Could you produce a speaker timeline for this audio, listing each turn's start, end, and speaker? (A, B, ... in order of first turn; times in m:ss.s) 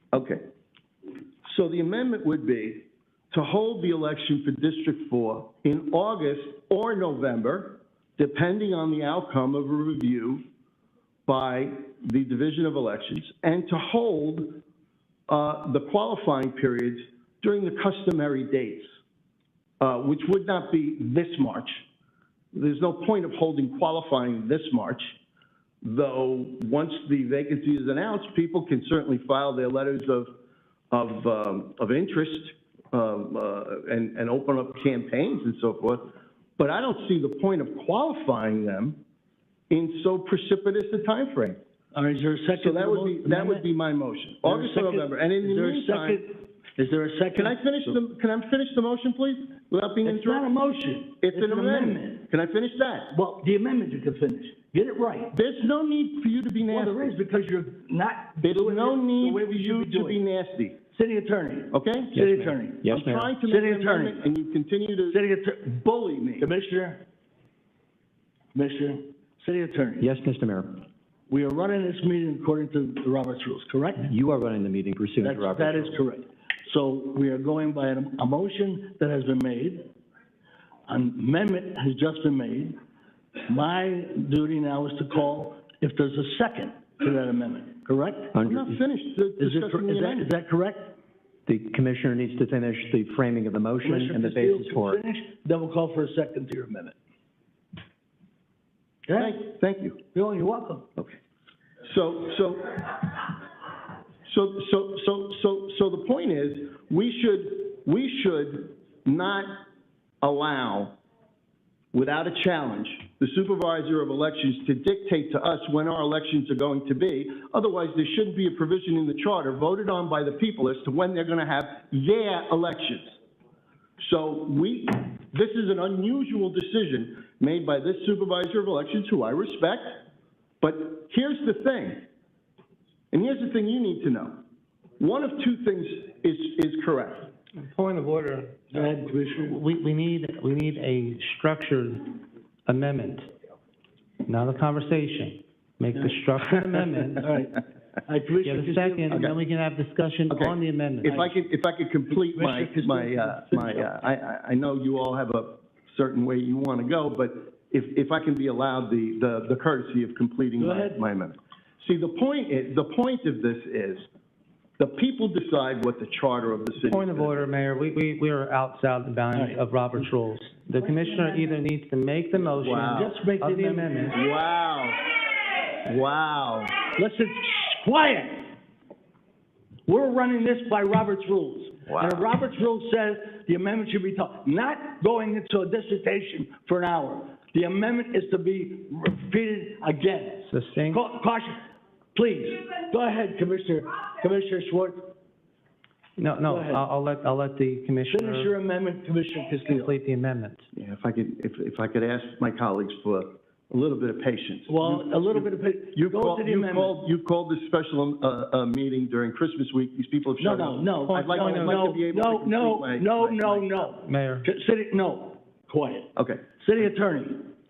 0:00.1-0:00.4 A
0:01.4-0:10.4 A
0:11.3-0:14.6 A
0:15.3-0:18.9 A
0:19.8-0:21.8 A
0:22.5-0:25.1 A
0:25.8-0:30.3 A
0:30.9-0:39.0 A
0:39.7-0:41.6 A
0:41.9-0:43.6 B
0:42.6-0:46.2 A
0:44.4-0:47.9 B
0:47.3-0:50.5 A
0:50.0-0:52.2 B
0:51.2-0:53.1 A
0:53.1-0:55.4 B
0:55.3-0:57.1 A
0:56.6-1:00.2 B
0:58.4-1:00.8 A
1:00.9-1:02.9 B
1:01.7-1:02.2 A
1:02.1-1:03.3 C
1:02.8-1:06.5 A
1:03.4-1:04.2 B
1:05.1-1:05.7 B
1:06.4-1:07.0 B
1:08.5-1:10.1 B
1:10.0-1:10.8 C
1:11.3-1:14.1 B
1:14.0-1:16.0 C
1:15.2-1:19.9 B
1:20.9-1:22.8 B
1:23.5-1:28.3 B
1:28.3-1:28.8 C
1:28.4-1:30.3 A
1:29.4-1:30.9 B
1:31.5-1:35.0 C
1:33.8-1:36.9 B
1:39.0-1:39.4 B
1:39.2-1:40.0 A
1:40.1-1:40.9 B
1:41.8-1:43.4 A
1:44.2-1:49.6 A
1:50.2-1:51.0 A
1:51.9-2:03.1 A
2:04.0-2:10.0 A
2:10.6-2:12.0 A
2:13.1-2:14.4 A
2:15.0-2:17.3 A
2:17.6-2:18.8 D
2:18.7-2:19.7 B
2:19.5-2:23.3 D
2:24.2-2:27.3 D
2:27.2-2:29.3 B
2:28.4-2:31.3 D
2:30.3-2:44.1 A
2:32.3-2:34.0 B
2:40.6-2:41.0 B
2:44.8-2:47.4 A
2:46.8-2:54.1 D
2:52.5-2:53.1 A
2:52.9-2:54.2 B
2:54.1-2:55.0 A
2:55.8-2:56.8 A
2:57.0-2:58.5 B
2:59.9-3:11.6 B
3:10.5-3:11.0 D
3:12.1-3:15.2 B
3:16.2-3:18.5 D
3:16.5-3:16.8 B
3:18.1-3:19.9 B
3:19.7-3:20.6 D
3:20.7-3:33.9 A
3:24.7-3:26.9 B
3:30.4-3:37.5 B
3:31.1-3:31.9 D
3:34.0-3:34.5 D
3:36.2-3:36.4 A